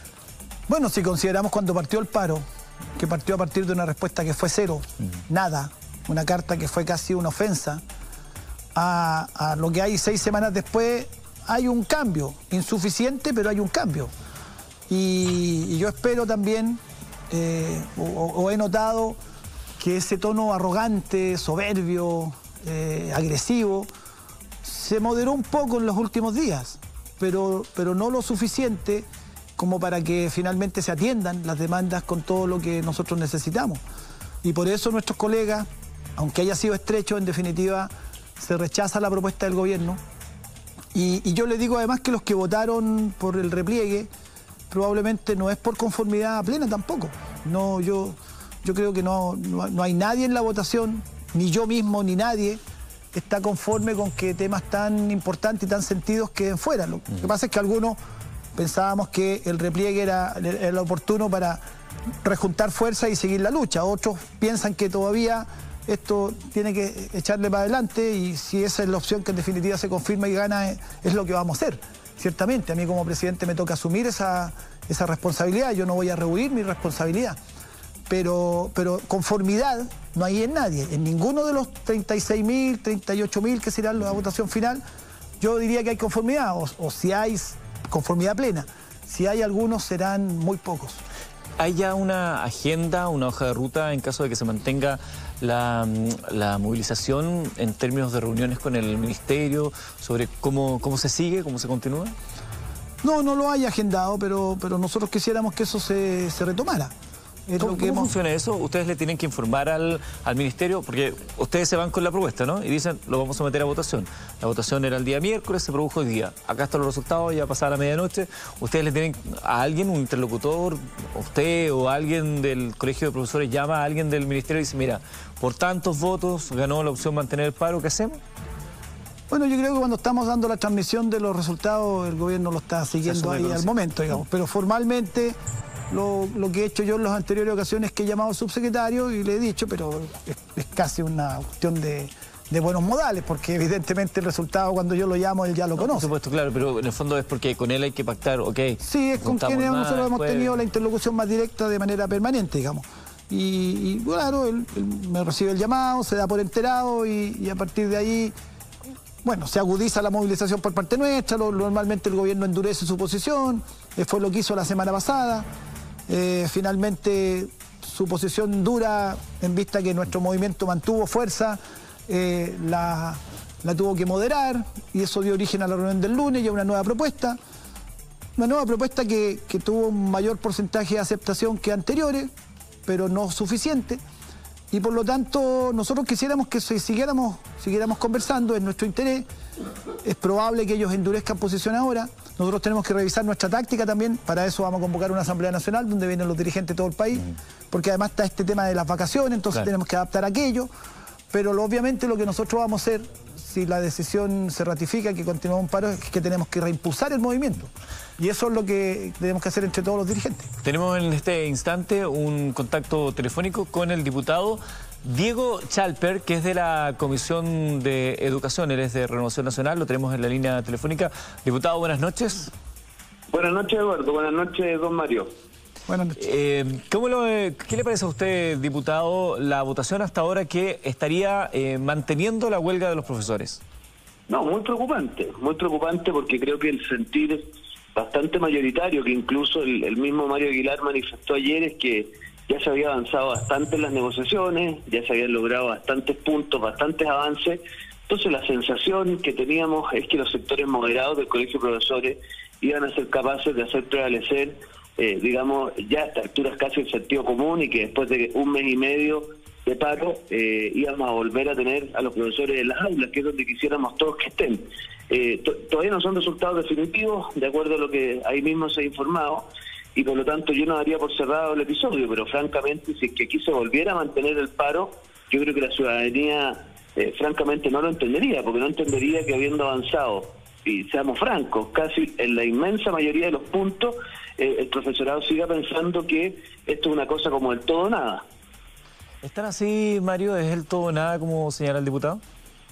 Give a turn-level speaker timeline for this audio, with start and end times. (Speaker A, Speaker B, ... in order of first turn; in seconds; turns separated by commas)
Speaker A: 0.7-2.4, Speaker A: 3.0-7.8, Speaker A: 8.8-14.1, Speaker A: 14.9-19.2, Speaker A: 19.8-23.9, Speaker A: 24.6-33.8, Speaker A: 34.4-40.0, Speaker A: 40.9-44.1, Speaker A: 44.7-52.6, Speaker A: 53.1-58.0, Speaker A: 58.5-61.6, Speaker A: 62.2-77.4, Speaker A: 78.1-84.8, Speaker A: 85.4-91.0, Speaker B: 91.6-102.1, Speaker A: 103.0-106.9, Speaker A: 107.5-108.1, Speaker B: 107.6-128.2, Speaker A: 129.3-135.4, Speaker B: 133.0-133.7, Speaker A: 135.9-146.1, Speaker B: 145.8-150.6, Speaker A: 148.8-158.3, Speaker A: 159.2-165.5, Speaker A: 166.1-177.4, Speaker A: 178.4-182.3, Speaker A: 182.8-184.0, Speaker A: 184.7-189.3, Speaker A: 190.0-200.7, Speaker A: 201.3-210.5, Speaker B: 210.6-222.5, Speaker C: 223.3-225.3, Speaker A: 225.9-226.2, Speaker B: 226.2-233.6, Speaker C: 234.3-237.4, Speaker C: 237.9-288.2, Speaker B: 289.2-292.2